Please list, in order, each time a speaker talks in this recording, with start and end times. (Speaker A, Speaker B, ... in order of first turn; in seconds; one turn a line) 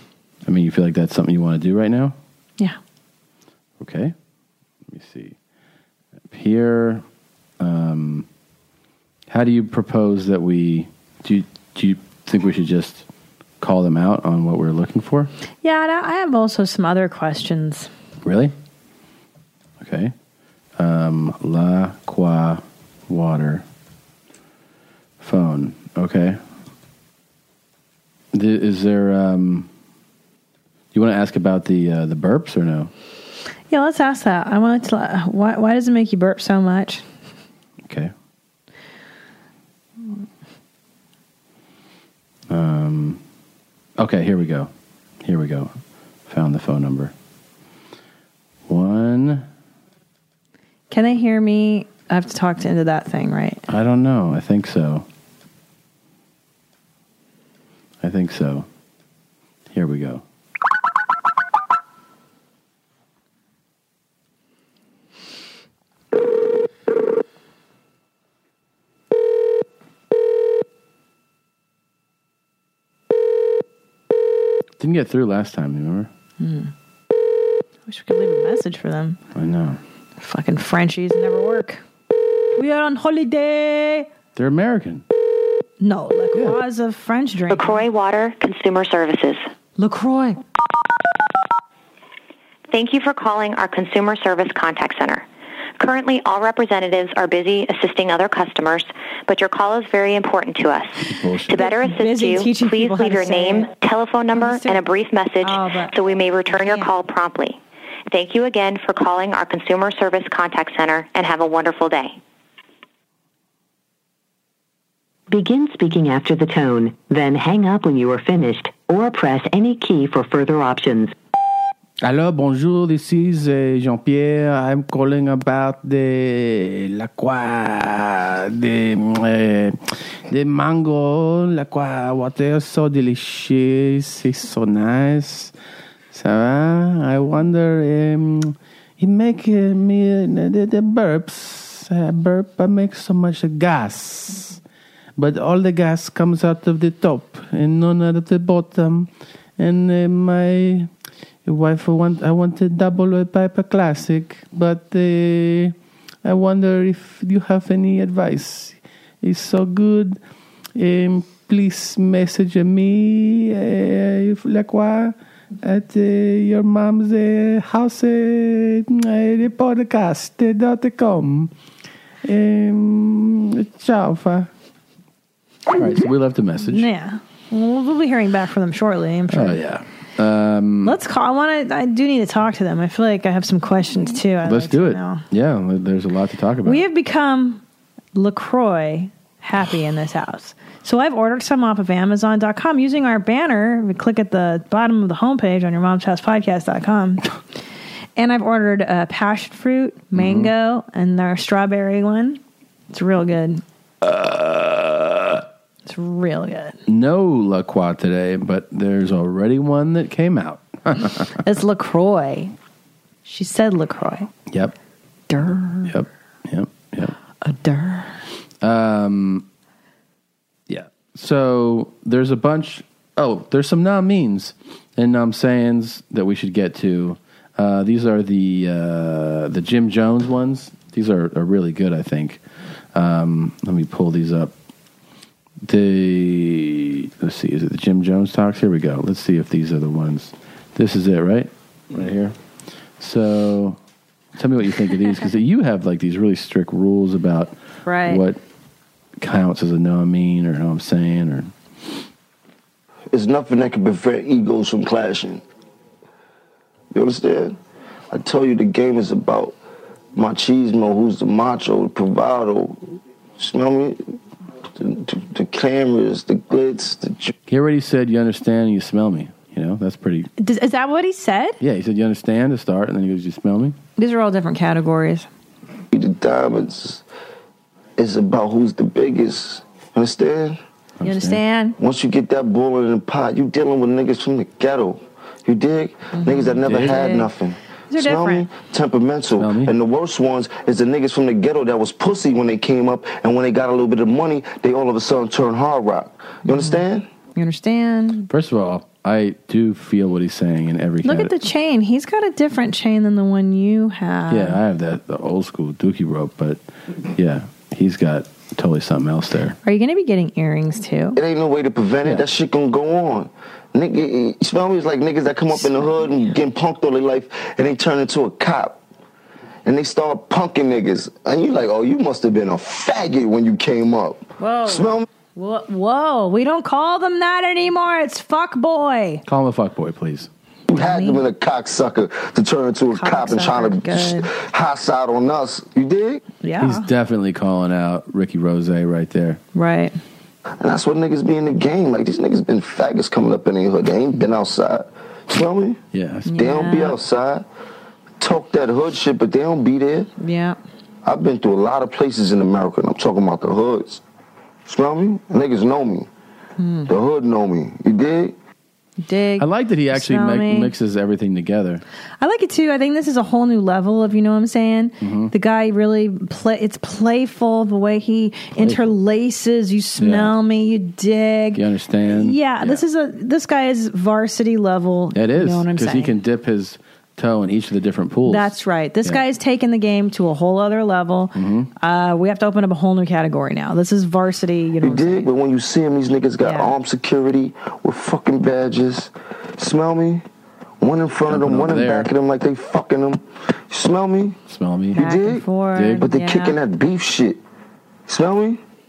Speaker A: 0.5-2.1
Speaker A: 3.8-4.1
Speaker A: 4.9-5.3
Speaker A: 6.3-7.0
Speaker A: 7.6-8.3
Speaker A: 9.3-13.0
Speaker A: 13.6-15.3
Speaker B: 15.6-17.9
Speaker A: 18.2-18.5
Speaker A: 19.8-20.1
Speaker A: 20.8-23.6
Speaker A: 25.2-26.4
Speaker A: 28.3-29.7
Speaker A: 30.9-32.9
Speaker B: 33.7-37.0
Speaker A: 37.9-38.1
Speaker A: 42.5-43.2
Speaker A: 44.0-44.7
Speaker A: 45.2-45.7
Speaker A: 46.3-47.1
Speaker A: 48.7-49.5
Speaker B: 50.9-53.6
Speaker A: 53.7-55.0
Speaker A: 58.0-58.7
Speaker A: 59.7-60.2
Speaker A: 74.8-76.1
Speaker B: 76.4-76.7
Speaker B: 77.8-79.2
Speaker A: 79.3-79.8
Speaker B: 80.2-81.8
Speaker B: 82.6-84.1
Speaker A: 84.3-85.0
Speaker B: 85.8-87.8
Speaker C: 87.5-89.5
Speaker B: 89.8-90.4
Speaker C: 92.7-95.2
Speaker C: 95.8-107.6
Speaker A: 101.0-101.5
Speaker B: 101.5-103.7
Speaker B: 104.3-106.9
Speaker C: 108.1-112.2
Speaker D: 115.3-121.1
Speaker A: 122.0-129.8
Speaker A: 130.3-135.5
Speaker A: 136.1-144.6
Speaker A: 145.2-150.9
Speaker A: 151.4-160.2
Speaker A: 160.8-171.5
Speaker A: 172.2-174.5
Speaker A: 175.7-176.9
Speaker B: 176.7-179.6
Speaker A: 179.3-180.9
Speaker B: 180.8-185.2
Speaker A: 184.4-186.8
Speaker B: 186.6-187.6
Speaker B: 188.1-197.2
Speaker B: 198.2-202.4
Speaker A: 200.1-200.5
Speaker B: 202.9-203.6
Speaker A: 204.0-205.4
Speaker B: 205.8-206.8
Speaker A: 206.9-211.3
Speaker B: 211.4-212.5
Speaker B: 213.2-214.3
Speaker A: 214.5-214.7
Speaker B: 215.3-215.9
Speaker A: 215.8-217.1
Speaker B: 217.4-218.2
Speaker A: 218.6-219.4
Speaker A: 220.7-232.4
Speaker A: 232.9-234.5
Speaker A: 235.7-242.3
Speaker A: 243.0-243.8
Speaker A: 244.3-248.4
Speaker B: 247.8-248.2
Speaker A: 249.2-251.5
Speaker E: 253.1-255.4
Speaker E: 256.9-257.6
Speaker E: 258.1-259.6
Speaker E: 260.1-264.1
Speaker E: 264.8-267.3
Speaker A: 267.5-270.3
Speaker B: 270.4-271.6
Speaker A: 271.6-273.8
Speaker B: 274.0-275.3
Speaker E: 275.9-277.0
Speaker E: 278.0-280.6
Speaker A: 281.0-281.4
Speaker B: 281.0-281.8
Speaker E: 281.8-297.1
Speaker B: 286.1-287.3
Speaker A: 286.6-287.0
Speaker B: 287.9-288.5
Speaker A: 289.4-289.7
Speaker B: 296.4-298.3
Speaker A: 298.3-301.3
Speaker B: 301.0-304.6
Speaker A: 304.3-306.6
Speaker A: 307.1-309.6
Speaker B: 309.6-311.2
Speaker E: 311.1-318.8
Speaker B: 315.6-316.0
Speaker E: 319.6-325.0
Speaker B: 324.4-329.2
Speaker A: 329.2-330.3
Speaker E: 330.7-336.2
Speaker B: 330.7-331.2
Speaker B: 332.9-334.3
Speaker B: 336.4-336.9
Speaker A: 336.6-339.4
Speaker B: 339.5-339.9
Speaker E: 340.6-345.8
Speaker A: 345.9-346.4
Speaker B: 346.3-347.0
Speaker E: 346.3-347.4
Speaker E: 348.2-350.1
Speaker B: 350.2-350.6
Speaker E: 351.0-354.0
Speaker E: 354.6-356.1
Speaker B: 356.6-356.9
Speaker E: 356.9-358.3
Speaker B: 359.0-360.7
Speaker A: 359.4-361.8
Speaker B: 362.2-376.1
Speaker A: 365.0-365.3
Speaker A: 368.6-368.9
Speaker A: 370.0-370.4
Speaker A: 371.5-372.8
Speaker A: 375.1-378.5
Speaker B: 378.2-385.3
Speaker A: 381.3-381.7
Speaker E: 384.8-390.2
Speaker B: 386.4-386.8
Speaker E: 390.8-394.4
Speaker A: 391.3-392.1
Speaker A: 394.5-395.0
Speaker E: 394.9-395.4
Speaker B: 394.9-396.6
Speaker A: 395.7-396.0
Speaker E: 396.0-397.4
Speaker E: 398.1-398.6